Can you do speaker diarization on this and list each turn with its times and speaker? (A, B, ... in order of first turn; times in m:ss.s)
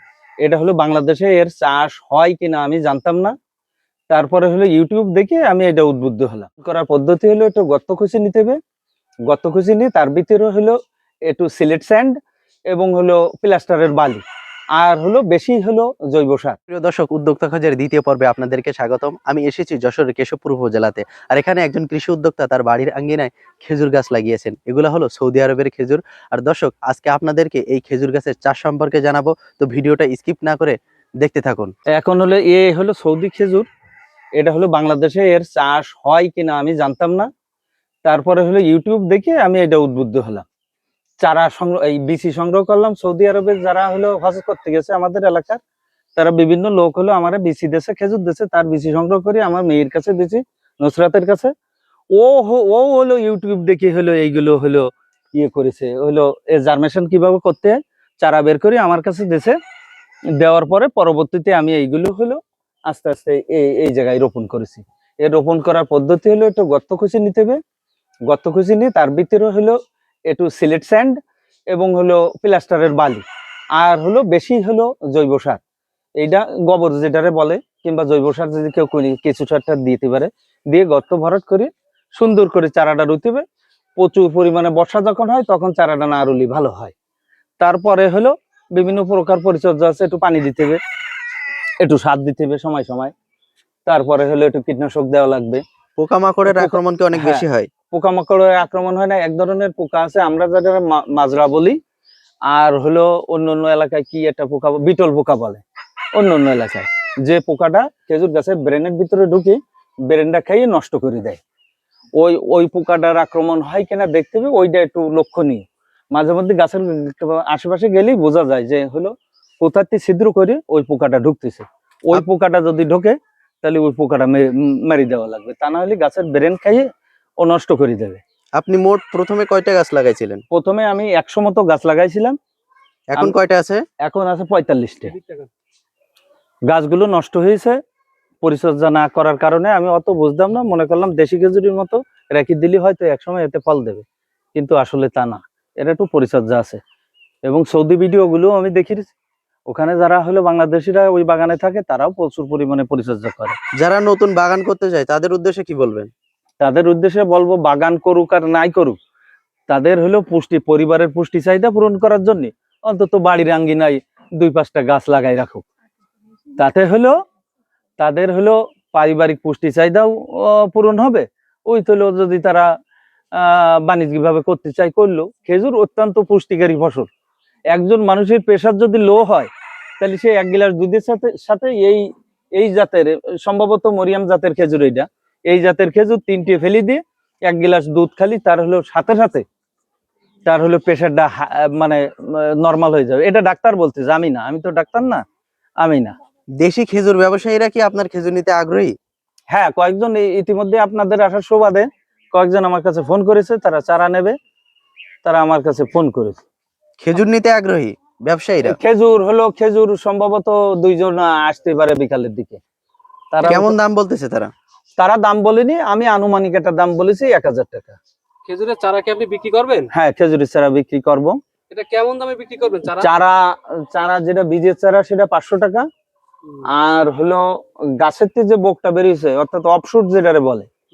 0:00.4-0:03.4 A
0:04.1-0:08.6 A
0:09.3-0:14.2 A
0:14.8-0:16.6 A
0:16.7-0:31.7 B
0:31.9-0:33.7 A
0:34.4-0:37.3 A
0:38.0-0:40.4 A
0:41.2-0:45.6 A
0:46.2-0:51.5 A
0:52.2-0:59.6 A
1:00.4-1:07.6 A
1:08.3-1:11.2 A
1:11.7-1:13.2 A
1:13.8-1:15.6 A
1:16.2-1:23.4 A
1:24.0-1:26.9 A
1:27.6-1:30.8 A
1:31.8-1:33.1 A
1:33.9-1:35.6 A
1:36.0-1:37.7 B
1:36.5-1:41.8 A
1:42.5-1:45.6 A
1:46.1-1:51.4 A
1:52.2-2:08.2 A
2:08.6-2:10.4 B
2:10.5-2:12.4 A
2:13.1-2:13.8 B
2:14.0-2:15.2 A
2:15.2-2:15.5 C
2:16.7-2:17.8 A
2:18.4-2:26.8 A
2:27.5-2:29.1 A
2:29.7-2:33.6 A
2:33.8-2:36.1 B
2:36.6-2:39.0 A
2:39.7-2:45.7 A
2:46.6-2:47.2 A
2:48.0-2:52.7 A
2:53.3-2:57.1 A
2:57.7-3:09.4 A
3:10.5-3:15.2 A
3:15.8-3:16.1 A
3:16.6-3:18.9 B
3:19.5-3:24.4 A
3:25.2-3:26.4 A
3:27.0-3:28.8 B
3:28.6-3:32.6 A
3:33.3-3:33.7 A
3:33.4-3:34.5 B
3:35.0-3:38.0 A
3:38.5-3:39.9 C
3:39.9-3:41.4 A
3:41.7-3:43.1 C
3:42.9-3:45.9 A
3:46.6-3:50.7 A